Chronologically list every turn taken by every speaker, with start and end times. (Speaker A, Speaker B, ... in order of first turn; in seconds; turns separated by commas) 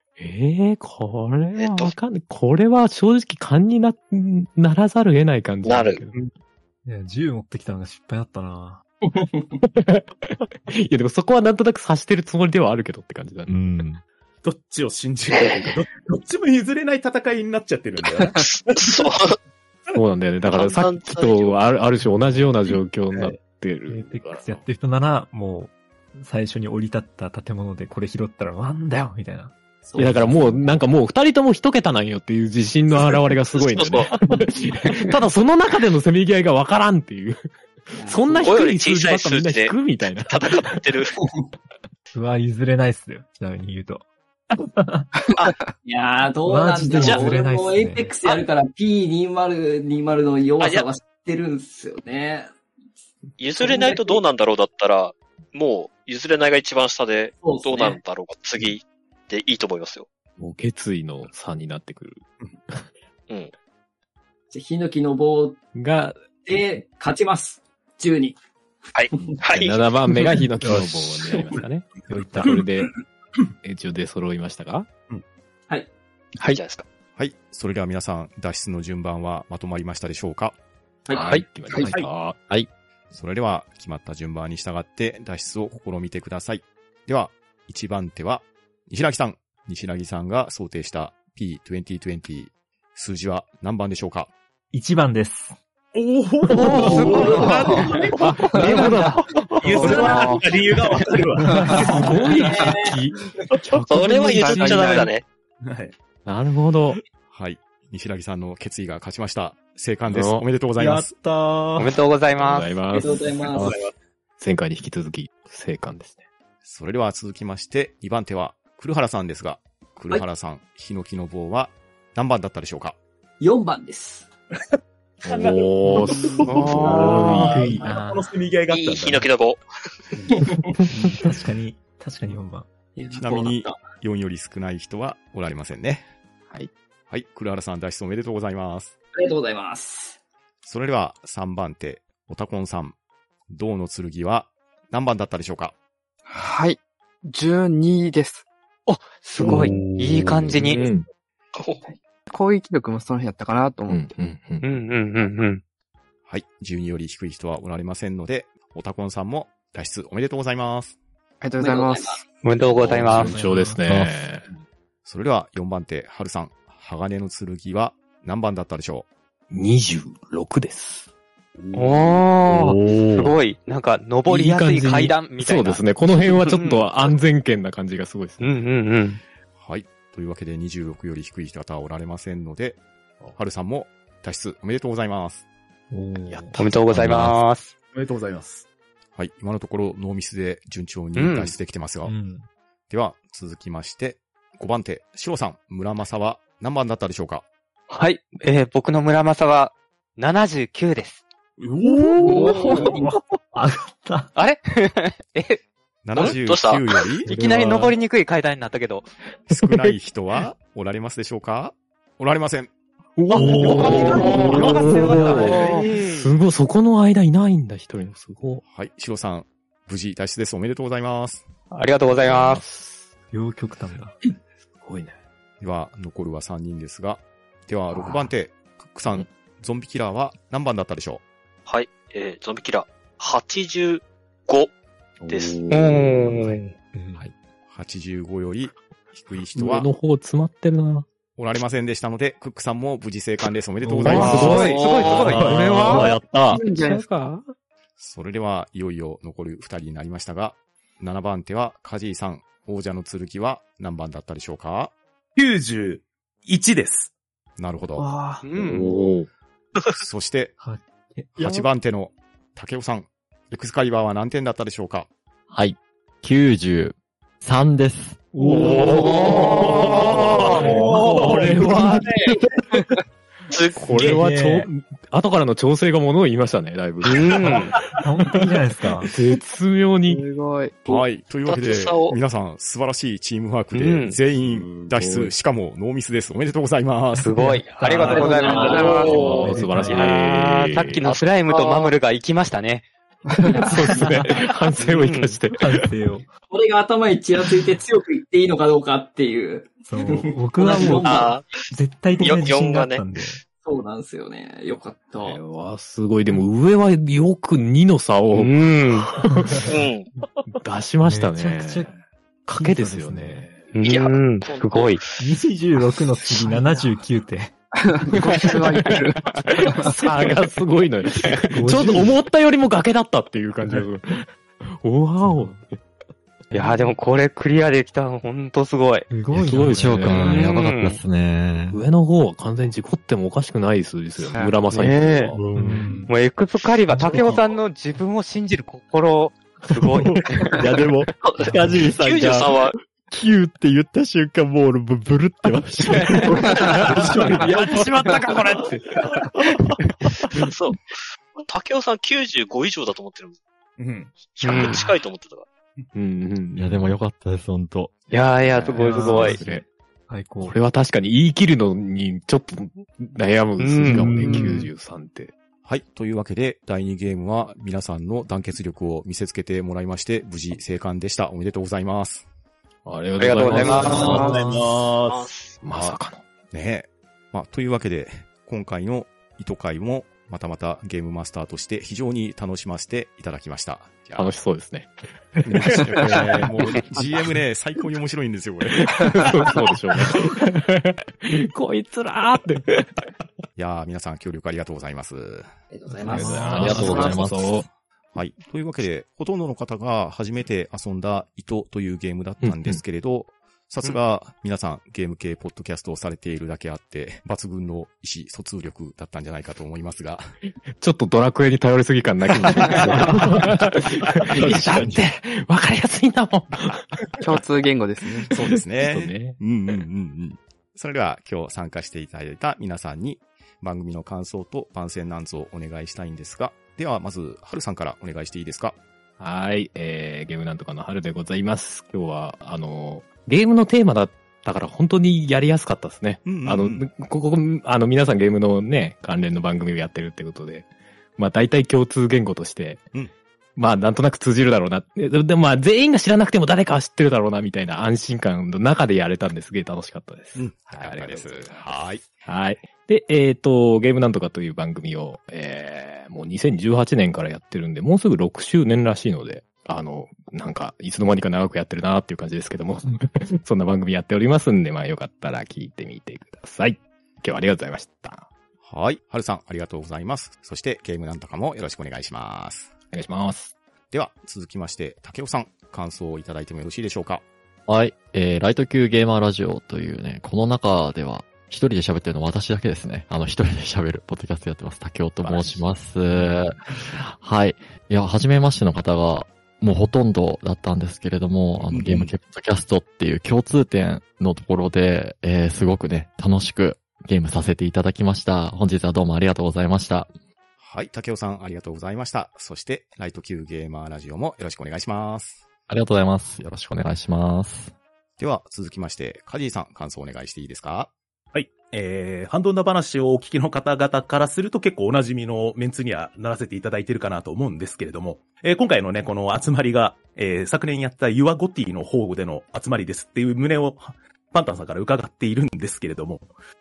Speaker A: 0.2-6.1, Speaker B: 1.6-1.9, Speaker B: 5.6-6.0, Speaker C: 6.8-8.8, Speaker A: 9.6-13.8, Speaker D: 13.5-14.0, Speaker E: 14.4-19.0, Speaker B: 15.3-15.7, Speaker B: 18.4-19.4, Speaker A: 19.9-24.6, Speaker B: 20.5-21.7, Speaker C: 23.9-30.5, Speaker F: 29.9-30.3, Speaker A: 30.0-37.4, Speaker B: 33.5-34.1, Speaker A: 37.9-40.7, Speaker F: 38.0-38.5, Speaker B: 38.4-41.1, Speaker C: 42.1-45.1, Speaker F: 45.8-52.5, Speaker C: 46.4-48.1, Speaker B: 47.0-47.3, Speaker B: 50.6-50.9, Speaker B: 53.4-60.1, Speaker F: 53.6-54.2, Speaker F: 57.4-58.0, Speaker A: 60.4-62.8, Speaker F: 64.5-65.6, Speaker A: 65.7-66.2, Speaker F: 66.4-68.4, Speaker B: 68.9-69.9, Speaker A: 69.5-72.9, Speaker A: 73.6-74.9, Speaker B: 76.4-76.8, Speaker G: 77.2-80.5, Speaker F: 81.1-81.4, Speaker A: 81.1-82.4, Speaker G: 83.1-94.3, Speaker C: 94.7-95.6, Speaker E: 95.9-102.1, Speaker H: 96.5-97.8, Speaker A: 96.7-97.4, Speaker F: 97.5-97.7, Speaker A: 98.2-100.3, Speaker H: 98.6-99.3, Speaker I: 98.6-98.8, Speaker I: 99.7-100.2, Speaker C: 101.5-101.9, Speaker A: 101.7-105.1, Speaker F: 101.9-103.0, Speaker B: 103.9-105.2, Speaker C: 104.0-105.0, Speaker I: 104.7-105.1, Speaker E: 105.6-105.9, Speaker A: 106.2-107.0, Speaker G: 107.3-111.1, Speaker A: 110.1-110.4, Speaker C: 110.8-111.8, Speaker H: 111.8-112.8, Speaker A: 112.4-113.8, Speaker F: 112.9-113.8, Speaker A: 114.4-116.2, Speaker G: 116.6-123.0, Speaker F: 123.4-124.3, Speaker A: 125.2-127.8, Speaker E: 125.2-129.3, Speaker H: 126.5-127.4, Speaker C: 127.4-128.3, Speaker B: 128.7-129.6, Speaker E: 130.1-130.5, Speaker C: 130.9-132.7, Speaker F: 132.9-133.9, Speaker G: 133.1-136.0, Speaker G: 137.1-138.9, Speaker F: 139.1-140.2, Speaker G: 140.6-142.9, Speaker G: 143.5-145.7, Speaker I: 146.3-148.4, Speaker H: 148.9-150.8, Speaker A: 149.4-149.9, Speaker D: 149.9-150.5, Speaker A: 150.5-151.1, Speaker B: 151.5-151.8, Speaker I: 152.3-154.1, Speaker A: 153.9-154.7, Speaker H: 154.6-155.6, Speaker G: 156.3-161.0, Speaker I: 161.4-162.2, Speaker F: 161.6-162.2, Speaker H: 162.4-163.3, Speaker A: 162.8-164.5, Speaker C: 163.1-163.8, Speaker D: 163.8-164.1, Speaker G: 165.1-169.1, Speaker A: 169.5-171.1, Speaker E: 171.6-172.2, Speaker H: 171.7-176.9, Speaker A: 172.5-173.2, Speaker A: 174.3-178.5, Speaker H: 178.4-179.2, Speaker G: 179.6-182.8, Speaker G: 183.3-185.4, Speaker C: 185.9-186.7, Speaker H: 186.6-187.7, Speaker D: 187.0-187.2, Speaker E: 187.9-188.6, Speaker G: 189.1-192.1, Speaker H: 191.1-191.5, Speaker C: 192.0-192.5, Speaker G: 192.9-197.4, Speaker H: 197.9-201.2, Speaker E: 201.6-202.9, Speaker C: 201.9-204.3, Speaker F: 202.2-203.0, Speaker H: 204.3-205.6, Speaker G: 206.0-207.3, Speaker B: 206.1-206.8, Speaker H: 207.2-209.1, Speaker A: 207.3-207.8, Speaker G: 209.5-212.7, Speaker A: 213.2-218.6, Speaker H: 213.3-216.3, Speaker E: 213.3-215.8, Speaker C: 214.9-215.4, Speaker G: 218.6-221.5, Speaker H: 221.7-222.6, Speaker A: 222.2-223.1, Speaker C: 223.3-224.1, Speaker A: 224.8-225.2, Speaker G: 225.6-231.2, Speaker A: 227.9-228.3, Speaker B: 231.7-234.7, Speaker A: 235.2-236.5, Speaker B: 235.3-235.6, Speaker H: 235.7-236.7, Speaker C: 236.9-237.3, Speaker G: 237.7-239.9, Speaker A: 239.5-241.1, Speaker G: 241.4-244.7, Speaker A: 243.8-247.5, Speaker H: 244.0-246.1, Speaker B: 244.5-245.4, Speaker E: 245.4-246.4, Speaker I: 246.5-247.1, Speaker G: 248.0-254.9, Speaker E: 255.3-257.1, Speaker G: 257.6-258.1, Speaker I: 258.0-258.4, Speaker H: 258.4-258.9, Speaker A: 258.6-259.3, Speaker G: 259.9-260.6, Speaker C: 260.6-261.6, Speaker G: 261.4-265.1, Speaker D: 265.5-268.3, Speaker A: 268.4-272.3, Speaker E: 268.7-272.4, Speaker H: 268.8-270.6, Speaker C: 270.5-271.8, Speaker B: 273.5-274.2, Speaker A: 273.7-277.5, Speaker C: 273.9-274.7, Speaker H: 277.0-277.8, Speaker C: 277.9-279.1, Speaker A: 279.0-280.2, Speaker I: 280.1-281.0, Speaker G: 280.9-287.3, Speaker B: 281.4-282.2, Speaker H: 283.7-284.2, Speaker A: 284.4-285.3, Speaker H: 287.2-292.9, Speaker C: 287.3-290.1, Speaker F: 288.1-289.1, Speaker I: 288.1-289.4, Speaker A: 288.9-291.0, Speaker B: 291.0-291.9, Speaker I: 293.3-293.6, Speaker F: 293.5-294.2, Speaker A: 293.6-295.9, Speaker C: 293.8-294.5, Speaker H: 294.8-295.3, Speaker C: 295.5-296.3, Speaker F: 296.5-301.3, Speaker C: 299.9-303.4, Speaker B: 300.7-301.5, Speaker B: 302.2-303.2, Speaker F: 303.6-305.4, Speaker A: 305.2-309.7, Speaker H: 308.3-309.1, Speaker C: 309.2-309.7, Speaker B: 309.7-310.1, Speaker A: 310.6-311.9, Speaker C: 311.0-312.0, Speaker A: 312.5-313.6, Speaker C: 312.5-313.6, Speaker H: 313.7-315.1, Speaker B: 313.8-315.1, Speaker C: 315.2-317.5, Speaker I: 317.8-320.3, Speaker A: 318.4-325.8, Speaker C: 321.5-322.2, Speaker C: 325.3-325.5, Speaker H: 326.5-329.1, Speaker C: 329.1-330.4, Speaker D: 329.2-331.8, Speaker A: 329.3-330.4, Speaker H: 330.2-331.0, Speaker A: 331.7-335.4, Speaker I: 334.2-334.7, Speaker H: 334.7-335.3, Speaker D: 335.3-336.0, Speaker C: 335.5-336.1, Speaker H: 336.1-340.6, Speaker C: 336.9-337.4, Speaker D: 340.5-347.6, Speaker B: 341.2-342.7, Speaker C: 341.5-341.8, Speaker H: 346.0-346.2, Speaker A: 346.2-348.8, Speaker H: 347.2-348.7, Speaker B: 350.3-350.8, Speaker B: 351.4-353.4, Speaker E: 353.8-354.3, Speaker B: 354.3-355.4, Speaker H: 354.4-355.0, Speaker A: 355.9-357.0, Speaker D: 356.6-358.0, Speaker H: 358.1-359.4, Speaker A: 358.1-359.6, Speaker C: 358.8-360.6, Speaker A: 360.4-365.3, Speaker H: 363.6-364.6, Speaker I: 363.9-364.7, Speaker G: 365.6-372.3, Speaker A: 372.9-374.9, Speaker H: 373.2-374.3, Speaker E: 373.6-375.3, Speaker I: 373.9-374.4, Speaker B: 375.1-375.6, Speaker A: 375.6-376.2, Speaker G: 375.7-384.3, Speaker A: 384.1-386.8, Speaker G: 385.4-389.6, Speaker A: 388.8-393.0, Speaker G: 393.6-395.5, Speaker F: 395.7-397.3, Speaker A: 396.1-397.6, Speaker D: 396.1-397.6, Speaker G: 398.1-410.3, Speaker A: 402.4-402.8, Speaker A: 410.8-417.4, Speaker G: 412.6-412.9, Speaker C: 414.4-415.0, Speaker H: 414.5-415.0, Speaker I: 417.2-418.3, Speaker G: 418.1-428.8, Speaker A: 418.3-419.4, Speaker A: 429.2-442.8, Speaker G: 436.2-436.9, Speaker A: 443.6-451.7, Speaker G: 450.4-452.1, Speaker A: 452.2-468.3, Speaker G: 468.6-472.7, Speaker A: 472.9-473.5, Speaker G: 473.9-477.2, Speaker D: 477.7-500.1, Speaker G: 491.7-492.1, Speaker G: 500.6-505.4, Speaker D: 505.7-507.7, Speaker G: 508.2-510.9, Speaker E: 511.3-526.3